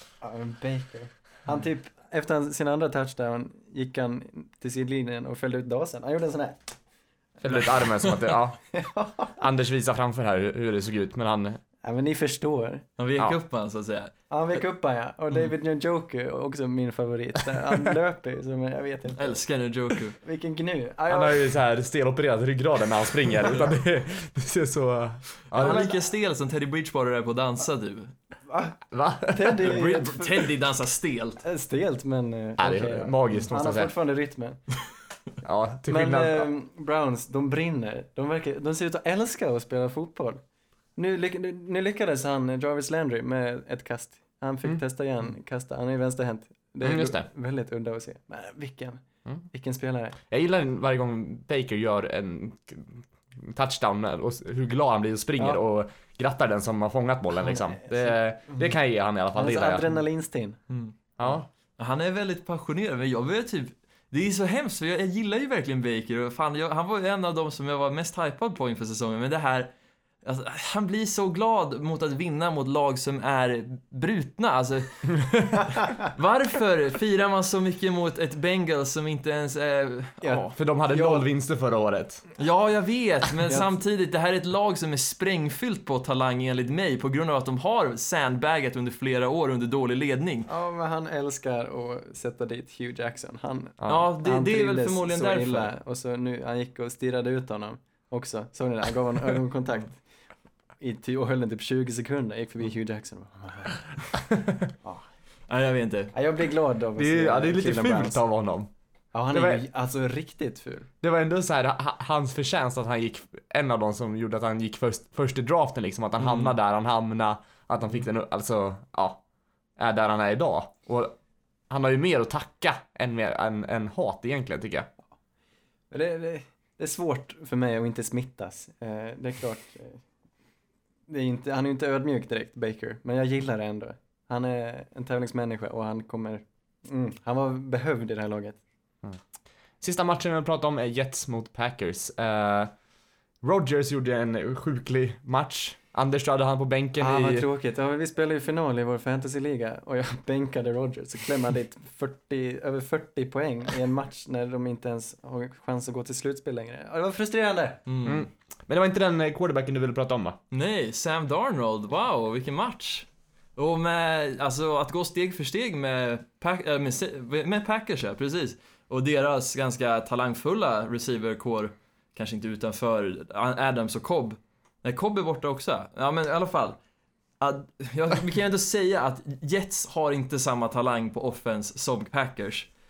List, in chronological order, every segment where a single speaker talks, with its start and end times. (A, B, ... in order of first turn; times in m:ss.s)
0:00.2-0:06.8 A
0:07.4-0:11.6 B
0:07.5-0:07.8 A
0:08.7-0:09.3 A
0:11.8-0:12.8 A
0:13.0-0:14.6 C
0:14.3-0:19.4 A
0:19.2-0:20.2 C
0:20.2-0:21.5 A
0:21.1-0:25.8 B
0:25.5-0:28.1 C
0:25.6-0:26.0 A
0:28.5-0:30.4 A
0:28.9-0:29.8 B
0:29.6-0:31.4 C
0:31.4-0:34.6 A
0:32.6-0:33.9 B
0:35.4-0:36.5 B
0:35.9-0:40.4 A
0:41.0-0:50.2 A
0:46.8-0:47.3 B
0:50.3-1:00.0 B
0:57.5-0:58.8 A
0:59.3-1:00.6 A
1:00.7-1:01.0 C
1:01.2-1:01.5 B
1:01.8-1:20.5 C
1:20.2-1:21.3 A
1:20.4-1:22.2 B
1:22.4-1:30.5 C
1:30.5-1:40.0 A
1:33.8-1:34.1 B
1:33.9-1:35.7 C
1:40.8-1:44.1 A
1:45.5-1:46.1 C
1:46.1-1:48.2 A
1:47.0-1:48.7 B
1:49.1-1:50.9 A
1:49.3-1:49.6 B
1:51.0-1:59.2 B
1:56.2-1:56.5 C
1:59.8-2:01.2 B
2:01.7-2:04.9 B
2:05.9-2:10.0 A
2:11.1-2:18.6 A
2:19.8-2:22.7 B
2:23.4-2:27.5 B
2:27.0-2:37.8 A
2:37.9-2:38.2 C
2:38.0-2:40.4 B
2:40.5-2:56.8 C
2:57.4-3:02.7 C